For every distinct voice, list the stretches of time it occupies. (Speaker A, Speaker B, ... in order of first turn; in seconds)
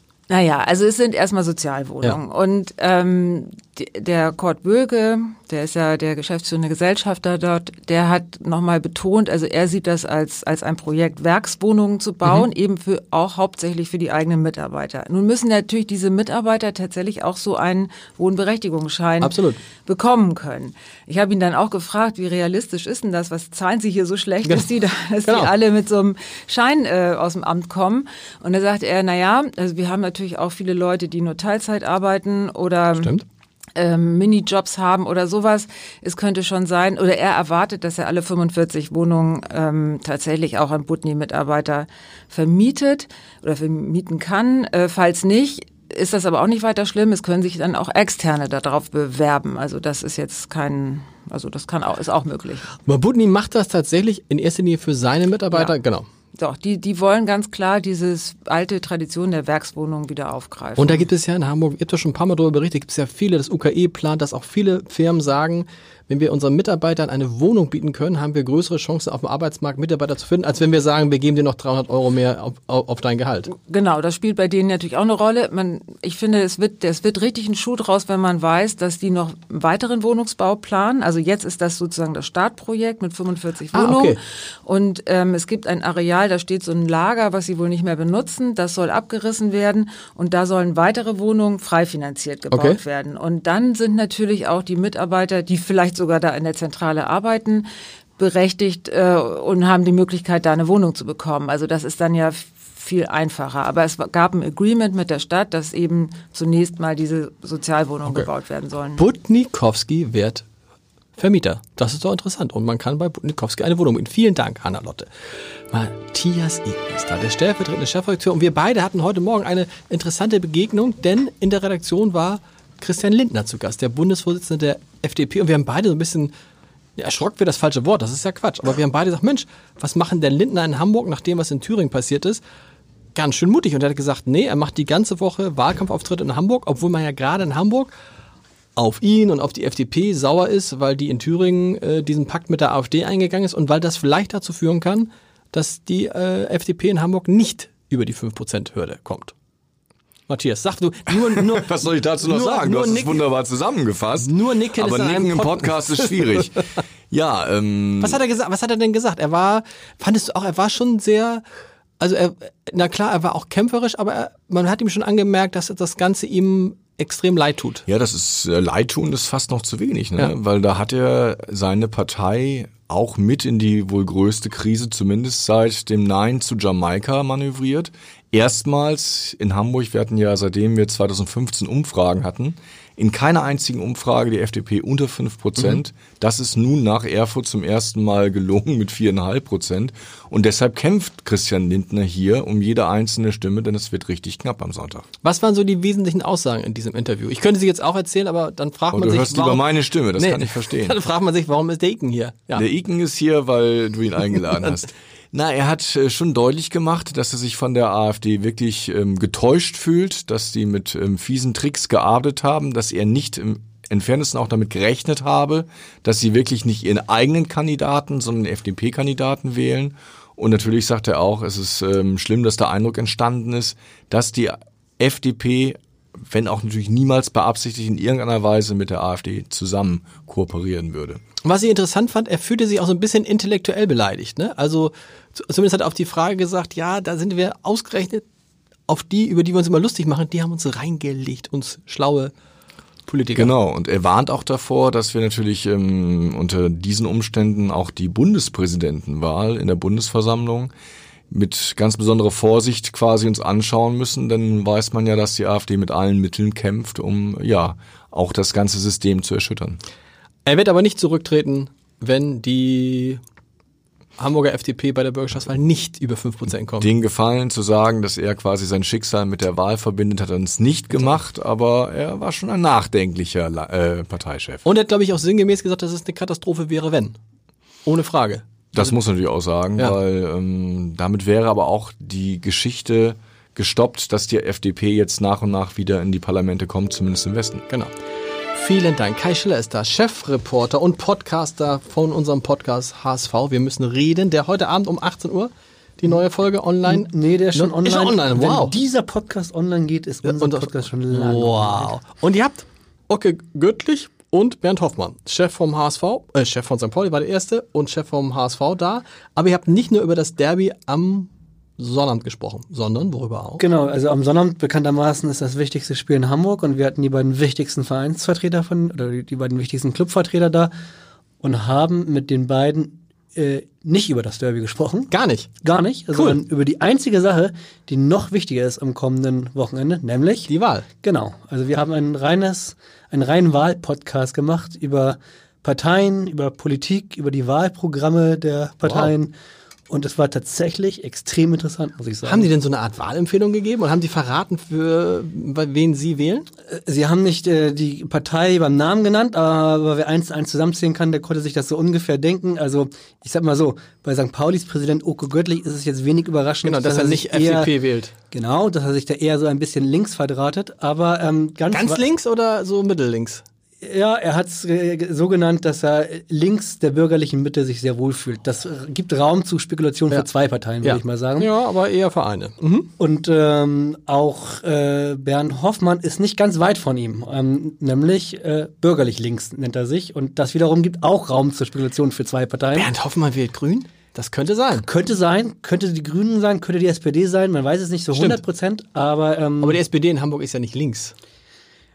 Speaker A: 0.3-33.1, 33.8-52.7, 56.4-61.1, 73.6-109.0
Speaker B: 19.2-19.6, 25.3-25.5, 33.0-33.2, 52.9-56.1, 60.8-73.5, 83.7-84.2, 92.5-92.8, 109.0-110.5, 111.2-115.1, 115.7-126.3, 127.0-132.4, 133.2-137.9, 138.8-149.3, 150.3-153.2, 154.2-156.5, 158.0-161.4, 162.0-167.8, 195.2-202.6, 231.4-238.2, 238.9-242.3, 243.1-243.5, 260.5-263.2, 264.2-266.9, 274.6-277.2, 277.9-278.9, 288.6-298.8, 300.2-313.6, 325.1-325.5, 326.1-326.4, 330.5-330.9, 342.2-346.5, 356.6-358.1, 361.7-363.4, 370.8-372.9, 382.7-384.9, 388.1-388.4, 389.6-391.1
Speaker C: 151.2-158.2, 167.9-195.1, 198.9-201.0, 202.6-231.2, 243.3-250.7, 251.3-259.8, 266.8-274.6, 278.7-287.6
Speaker D: 296.9-301.9, 313.6-320.7, 321.4-325.1, 325.6-330.5, 331.0-339.3, 339.9-342.5, 346.7-357.8, 358.3-362.0, 363.8-371.5, 373.0-382.9, 384.9-389.8